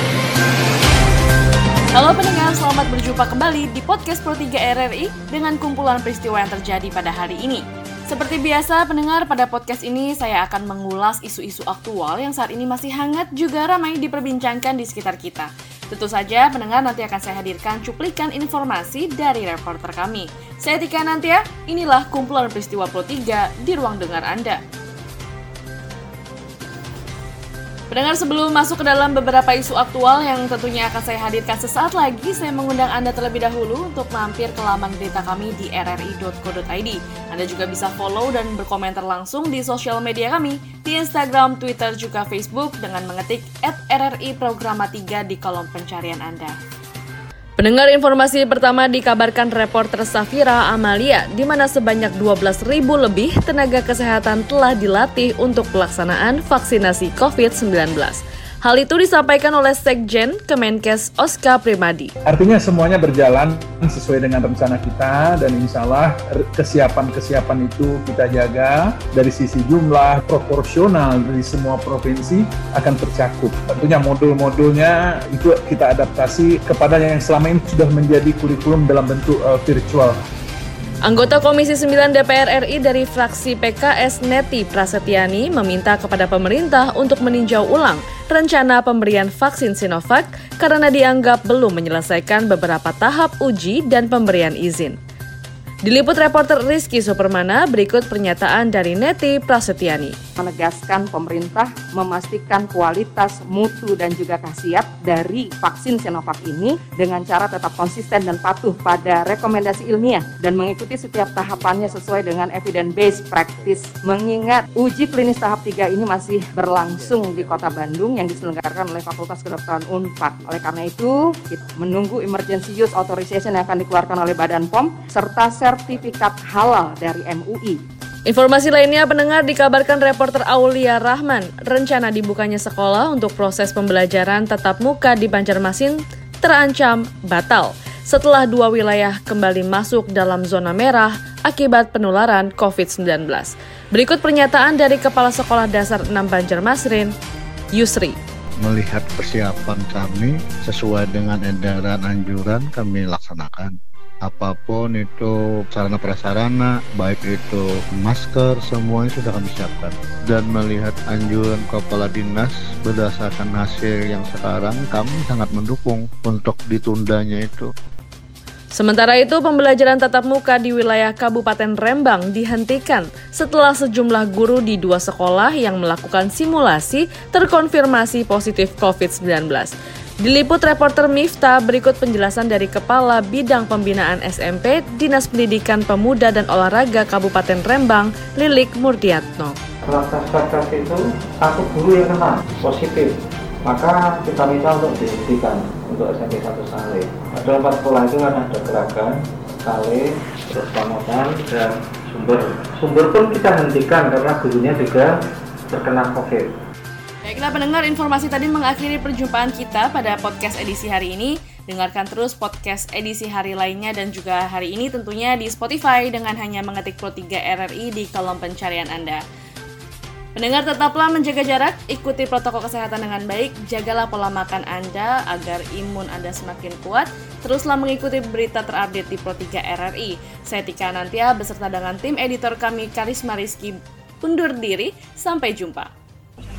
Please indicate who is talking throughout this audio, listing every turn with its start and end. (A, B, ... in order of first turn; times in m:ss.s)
0:01.9-0:24.6 A
0:27.9-0:46.6 A
0:47.6-1:02.1 A
1:02.2-1:20.2 B
1:21.0-1:35.0 A
1:35.8-1:40.1 A
1:40.4-2:07.8 C
2:08.3-2:27.1 A
2:27.7-2:28.2 A
2:28.6-2:33.7 D
2:34.2-2:47.7 D
2:48.7-3:09.6 A
3:09.8-3:13.1 E
3:13.6-3:25.2 E
3:25.7-3:26.5 E
3:27.2-3:39.2 A
3:40.4-3:55.9 A